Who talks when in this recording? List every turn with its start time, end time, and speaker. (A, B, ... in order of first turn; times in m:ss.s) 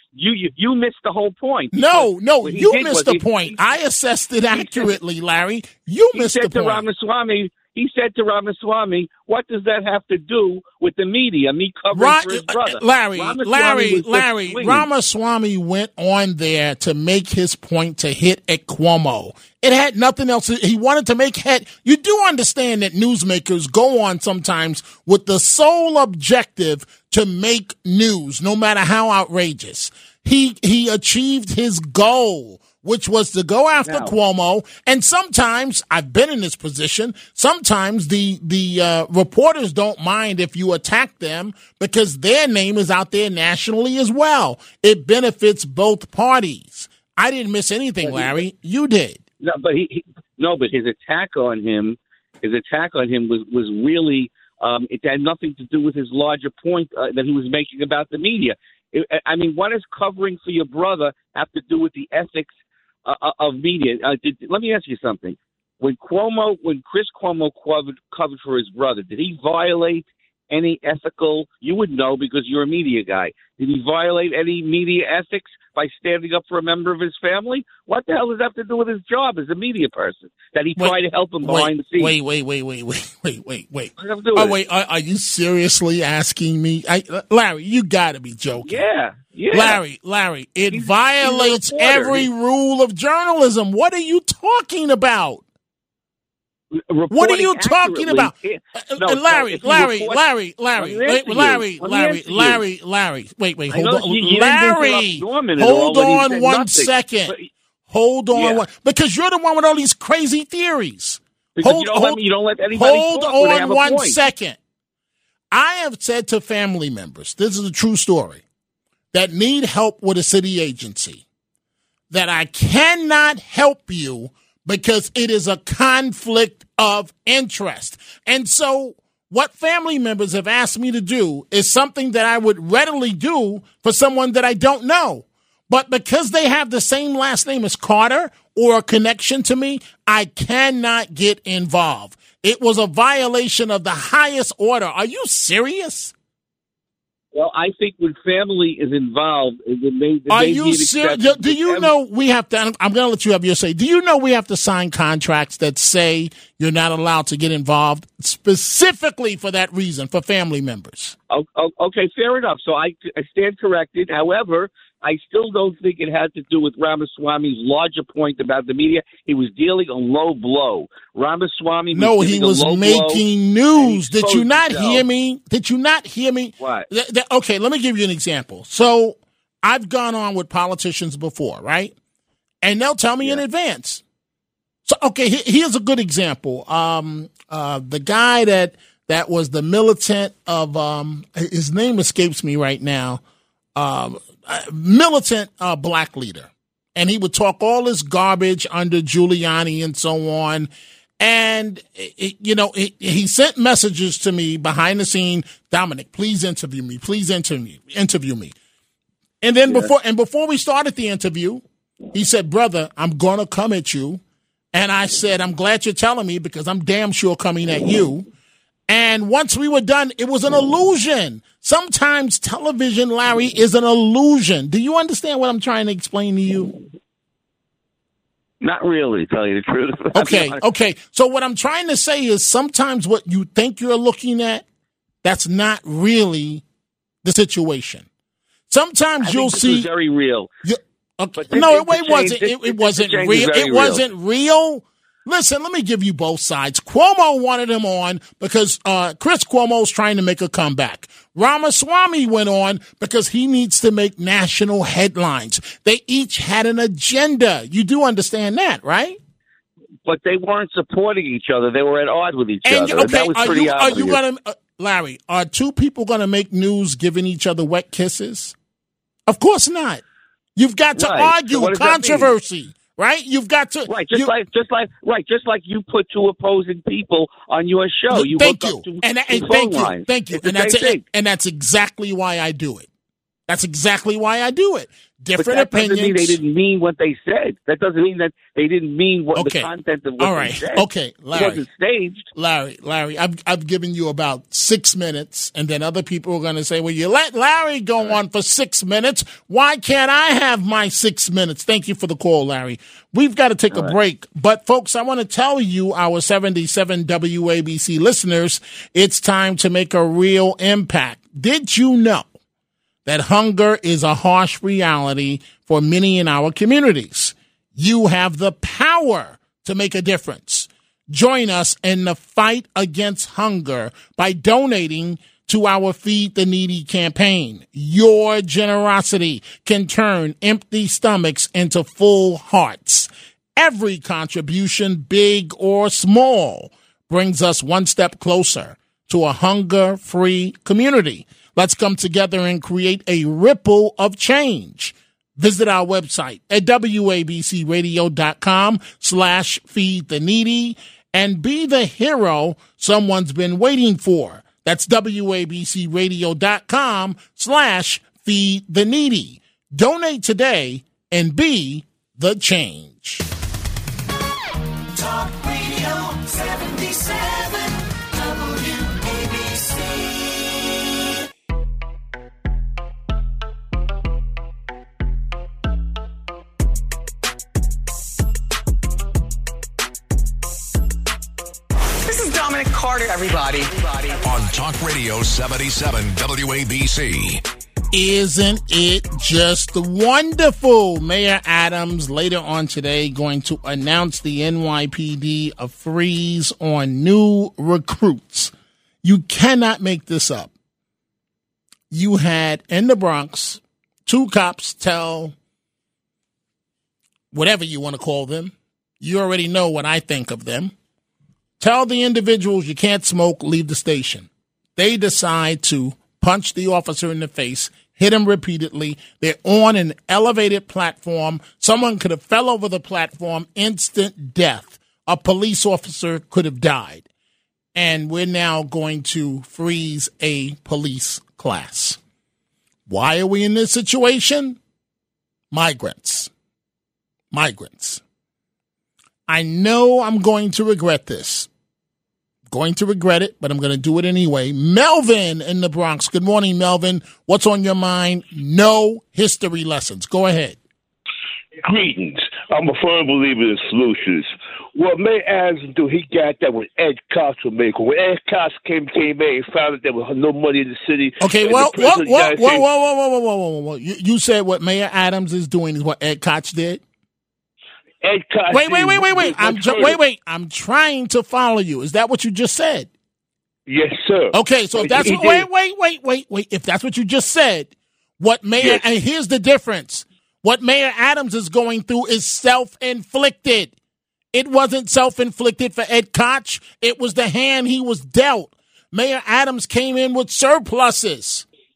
0:00.1-0:03.8 A
0:01.7-0:06.8 B
0:04.5-0:05.0 A
0:06.1-0:14.9 A
0:11.9-0:49.2 B
0:33.8-0:34.1 A
0:48.0-0:48.4 A
0:49.4-1:02.5 A
1:03.0-1:22.1 A
1:20.8-1:28.8 B
1:24.0-1:24.6 A
1:28.6-1:29.8 A
1:29.5-1:35.4 B
1:30.7-1:32.3 A
1:36.7-1:40.2 A
1:37.1-1:47.3 B
1:40.7-1:42.6 A
1:43.7-1:47.5 A
1:47.9-1:54.6 B
1:48.3-1:48.6 A
1:51.6-1:54.2 A
1:55.5-1:58.4 B
1:59.1-2:01.2 B
2:02.1-2:26.1 B
2:27.3-2:31.9 A
2:30.3-2:41.2 B
2:41.3-2:53.2 A
2:51.9-3:01.9 B
2:53.8-2:55.0 A
2:56.6-2:56.9 A
3:02.6-3:04.0 B
3:04.8-3:13.2 B
3:13.7-3:28.5 B
3:29.4-3:34.2 B
3:34.7-3:38.2 B
3:38.9-3:46.7 B
3:48.6-3:50.6 A
3:50.1-3:54.6 B
3:55.2-3:56.6 B
3:57.2-3:58.1 B
3:58.7-3:59.9 B
3:59.2-4:00.5 A
4:00.6-4:19.2 B
4:01.4-4:04.0 A
4:20.0-4:24.2 A
4:22.6-4:28.5 B
4:29.3-4:30.0 B
4:30.6-4:34.3 B
4:31.0-4:32.3 A
4:33.9-4:41.0 A
4:38.1-4:42.9 B
4:43.5-4:46.4 B
4:45.4-4:52.3 A
4:49.3-4:51.6 B
4:52.3-5:12.3 B
5:13.0-6:03.2 B
6:22.1-6:24.2 C
6:24.2-6:27.4 D
6:27.9-6:40.5 B
6:41.9-6:45.3 B
6:47.3-6:50.7 B
6:51.6-7:07.0 B
7:07.7-7:12.0 B
7:12.9-7:14.6 B
7:15.5-7:16.3 B
7:17.3-7:18.0 B
7:19.3-7:21.5 B
7:22.5-7:30.6 B
7:31.6-7:42.6 E
7:41.2-7:46.8 B
7:48.0-7:50.0 E
7:48.5-7:52.9 B
7:53.7-7:55.5 E
7:54.3-8:03.8 B
7:58.6-7:58.8 E
8:04.3-8:11.4 B